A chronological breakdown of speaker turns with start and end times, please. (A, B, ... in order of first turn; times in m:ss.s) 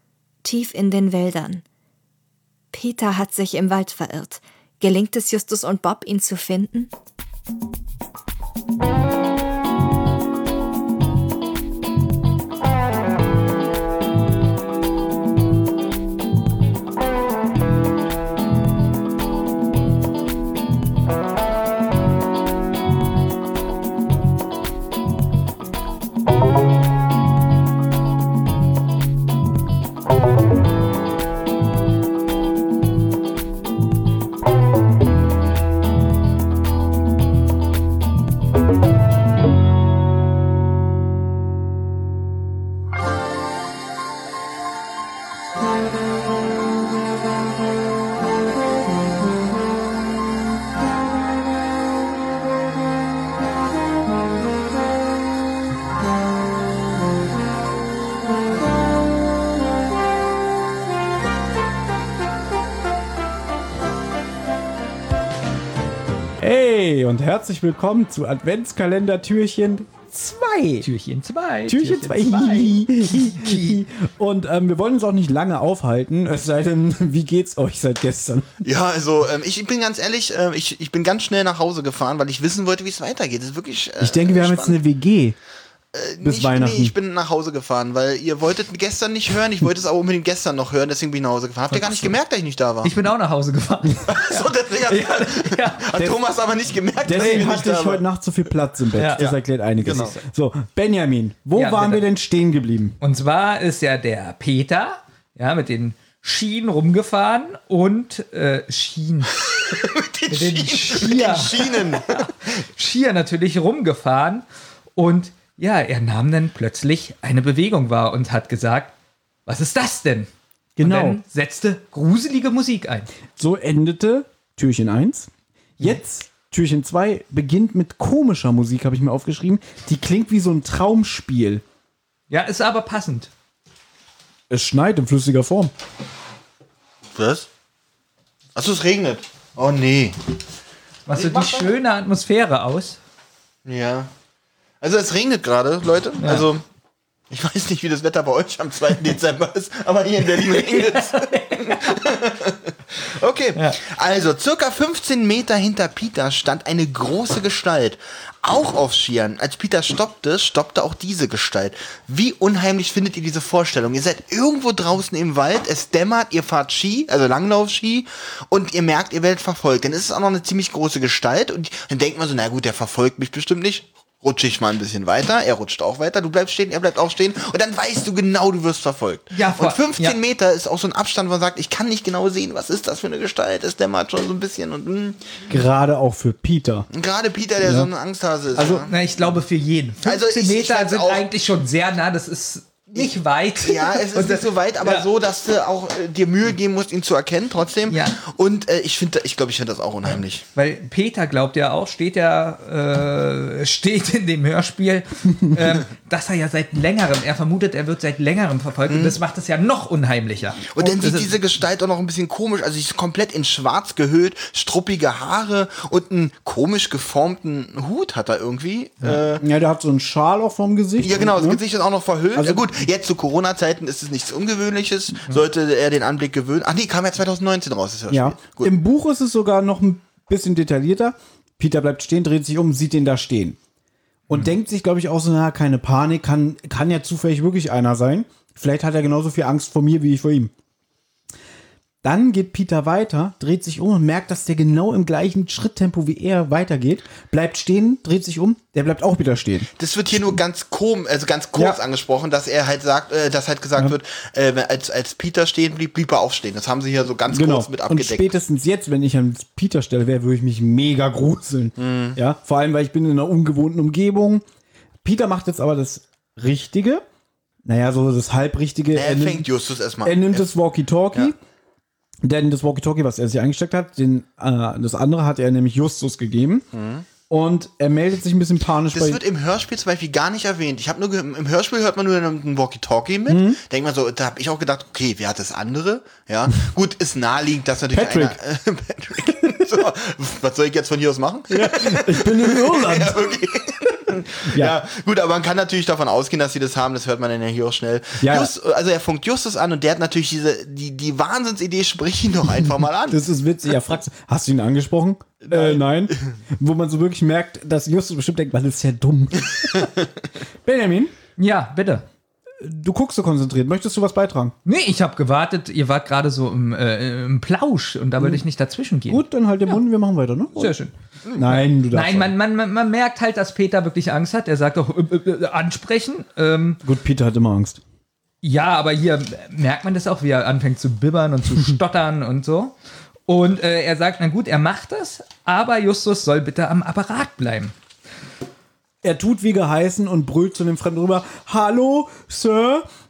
0:00.4-0:01.6 A
0:02.7-0:06.9 A
1:06.4-1:10.9 B
1:10.8-1:13.8 C
1:11.7-1:18.5 B
1:18.6-1:24.8 D
1:24.0-1:25.4 B
1:25.9-1:32.9 D
1:26.2-1:26.9 B
1:31.7-1:32.2 C
1:32.8-1:36.0 C
1:34.1-1:38.0 D
1:35.9-1:36.2 B
1:37.0-1:43.0 B
1:37.1-1:37.5 C
1:38.9-1:39.3 C
1:39.2-1:40.2 D
1:39.8-1:40.1 C
1:41.5-1:42.1 C
1:43.0-1:49.5 C
1:49.7-1:52.0 D
1:50.3-1:58.9 C
1:59.5-2:03.1 C
2:00.8-2:01.2 B
2:03.4-2:11.6 B
2:12.3-2:13.3 C
2:14.5-2:15.7 B
2:17.2-2:17.5 D
2:18.6-2:20.2 D
2:21.1-2:23.0 C
2:21.3-2:21.6 D
2:23.6-2:24.1 D
2:24.8-2:26.6 D
2:26.2-2:26.5 C
2:27.3-3:05.2 D
2:30.4-2:32.0 C
2:59.3-3:00.2 C
3:05.5-3:06.9 B
3:06.9-3:08.9 D
3:07.6-3:07.9 B
3:08.6-3:08.9 B
3:08.7-3:15.1 C
3:10.0-3:11.3 D
3:12.9-3:20.4 D
3:17.9-3:18.2 C
3:20.0-3:31.5 C
3:28.9-3:29.2 D
3:30.7-3:39.4 D
3:39.0-3:41.6 B
3:41.0-3:48.7 D
3:42.4-3:42.7 B
3:48.1-3:53.6 B
3:54.3-4:00.5 B
4:02.0-4:09.7 B
4:09.8-4:18.3 D
4:17.3-4:24.4 B
4:21.8-4:22.2 D
4:25.0-4:27.0 B
4:27.7-4:29.5 B
4:28.9-4:30.5 D
4:30.0-4:31.4 B
4:32.2-4:36.7 B
4:36.7-4:37.1 D
4:37.3-4:39.2 B
4:38.9-5:03.2 D
4:43.3-4:43.6 B
4:47.9-4:48.4 B
4:51.5-4:53.2 B
4:54.5-4:54.8 B
4:58.2-4:58.5 B
5:03.1-5:09.9 B
5:05.4-5:06.0 D
5:10.6-5:11.1 B
5:11.4-5:12.0 C
5:12.6-5:14.5 B
5:14.6-5:19.8 C
5:18.2-5:18.4 B
5:19.1-5:22.4 B
5:20.5-5:26.8 C
5:26.8-5:27.8 B
5:28.4-5:32.8 C
5:33.3-5:37.7 C
5:39.0-5:42.8 B